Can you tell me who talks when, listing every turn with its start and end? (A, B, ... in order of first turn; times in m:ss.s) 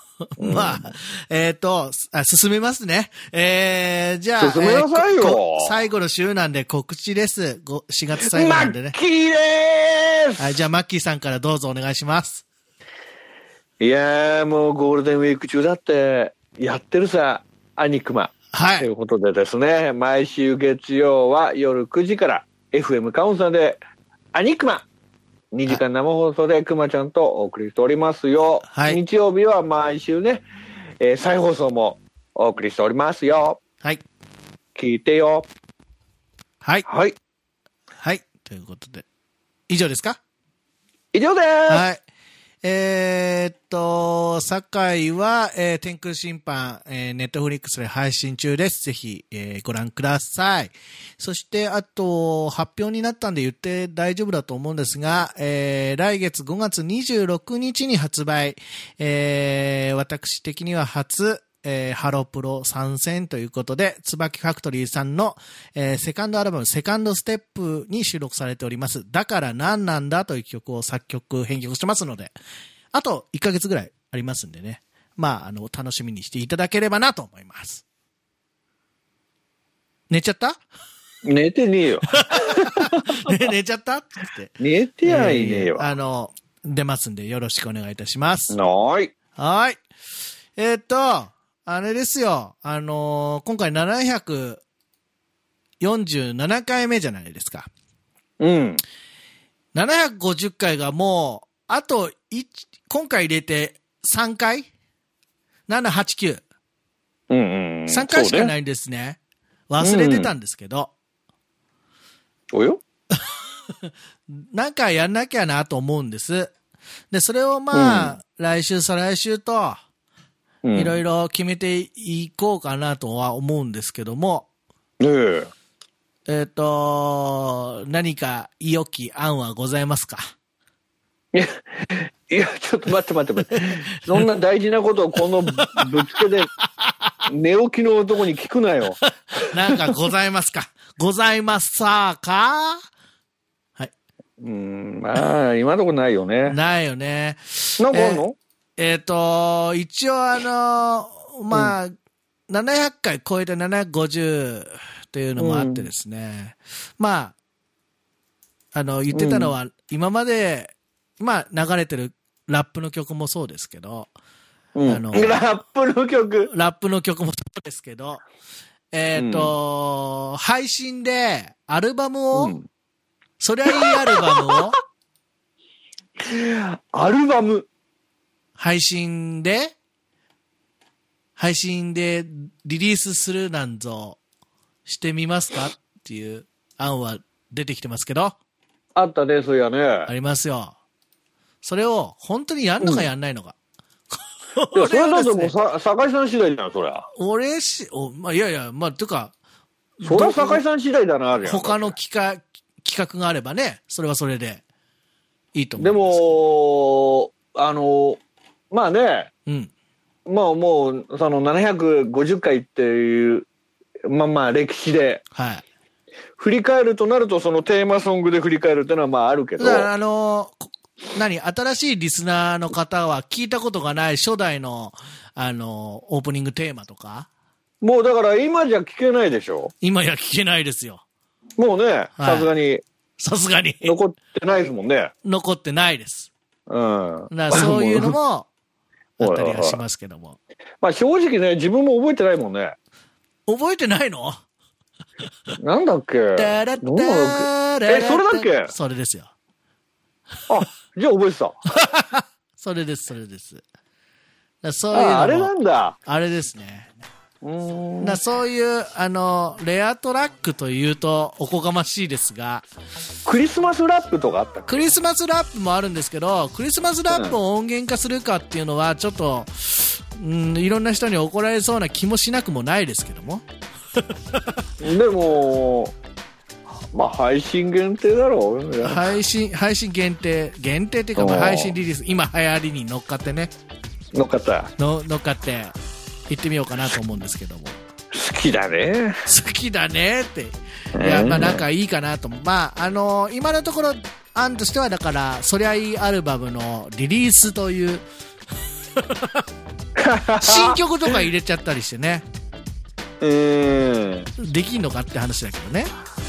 0:00.2-0:09.0 A
0:00.4-0:00.8 B
0:04.4-0:05.8 B
0:08.2-0:10.4 B
0:10.4-0:12.4 A
0:13.8-0:23.8 B
0:18.5-0:18.9 A
0:24.3-0:24.9 B
0:25.5-0:30.4 B
0:28.7-0:29.0 A
0:31.0-0:33.6 B
0:34.8-0:35.5 B
0:36.9-0:37.2 B
0:38.0-0:39.0 A
0:39.7-0:40.2 A
0:41.1-0:41.8 B
0:41.7-0:42.0 A
0:42.6-1:12.3 A
1:12.9-1:17.8 A
1:20.1-1:20.6 A
1:21.2-1:23.3 B
1:22.2-1:28.6 A
1:24.6-1:25.9 B
1:28.5-1:29.1 B
1:29.4-1:29.8 A
1:30.6-1:34.6 A
1:35.8-1:37.7 A
1:38.4-1:38.8 B
1:39.7-1:44.7 A
1:45.7-1:46.4 A
1:47.3-1:48.5 B
1:47.9-1:50.9 A
1:49.8-1:50.3 B
1:52.5-1:52.8 B
1:53.8-1:56.5 A
1:57.1-1:59.8 A
1:57.7-1:58.2 B
2:00.6-2:01.0 B
2:00.8-2:04.5 A
2:05.0-2:05.5 B
2:06.3-2:10.2 A
2:11.3-2:16.5 B
2:15.6-2:15.8 A
2:16.8-2:17.1 A
2:17.3-2:19.0 B
2:19.4-2:22.8 A
2:24.4-2:26.6 B
2:26.5-2:28.2 A
2:27.8-2:28.4 B
2:28.8-2:31.9 A
2:32.5-2:37.4 A
2:35.4-2:35.9 B
2:38.7-2:44.1 A
2:39.1-2:39.5 B
2:44.8-2:46.5 B
2:44.9-2:45.5 A
2:46.5-2:48.2 A
2:48.9-2:52.6 A
2:49.1-2:49.5 B
2:52.3-2:52.7 B
2:53.4-2:54.8 A
2:53.7-2:54.6 B
2:56.2-2:57.7 B
2:58.6-2:59.7 A
3:01.4-3:04.2 A
3:04.9-3:08.4 A
3:09.0-3:10.1 B
3:10.1-3:10.8 A
3:11.6-3:13.6 A
3:12.8-3:13.1 B
3:14.5-3:15.5 A
3:14.7-3:17.1 B
3:17.2-3:19.3 A
3:20.0-3:20.6 A
3:20.0-3:21.9 B
3:21.4-3:24.6 A
3:25.6-3:26.4 A
3:25.8-3:29.3 B
3:30.3-3:33.5 B
3:34.1-3:35.2 B
3:35.3-3:35.6 A
3:36.4-3:39.9 B
3:39.6-3:47.3 A
3:47.8-3:49.7 B
3:49.8-3:51.0 A
3:51.6-3:52.8 B
3:52.2-3:52.5 A
3:53.2-3:53.9 A
3:53.8-3:55.1 B
3:55.2-3:56.3 A
3:56.7-3:58.2 B
3:57.3-3:58.5 A
3:59.2-4:00.4 A
3:59.2-3:59.8 B
4:00.8-4:02.8 B
4:03.5-4:04.4 A
4:05.6-4:08.7 B
4:06.4-4:09.3 A
4:10.5-4:11.6 B
4:11.7-4:13.6 A
4:14.6-4:15.5 A
4:14.9-4:16.0 B
4:16.1-4:16.9 A
4:17.4-4:18.2 B
4:18.0-4:22.6 A
4:23.2-4:24.8 B
4:24.7-4:33.4 A
4:27.1-4:27.4 B
4:34.8-4:35.9 B
4:36.9-4:39.2 B
4:38.8-4:43.5 A
4:41.2-4:41.8 B
4:44.1-4:44.7 B
4:44.8-4:45.7 A
4:46.3-4:47.8 A
4:48.1-4:49.2 B
4:49.3-4:58.0 A
4:51.0-4:51.6 B
4:59.0-4:59.4 A
5:00.0-5:00.8 B
5:00.4-5:02.2 A
5:03.2-5:04.3 B
5:04.4-5:05.9 A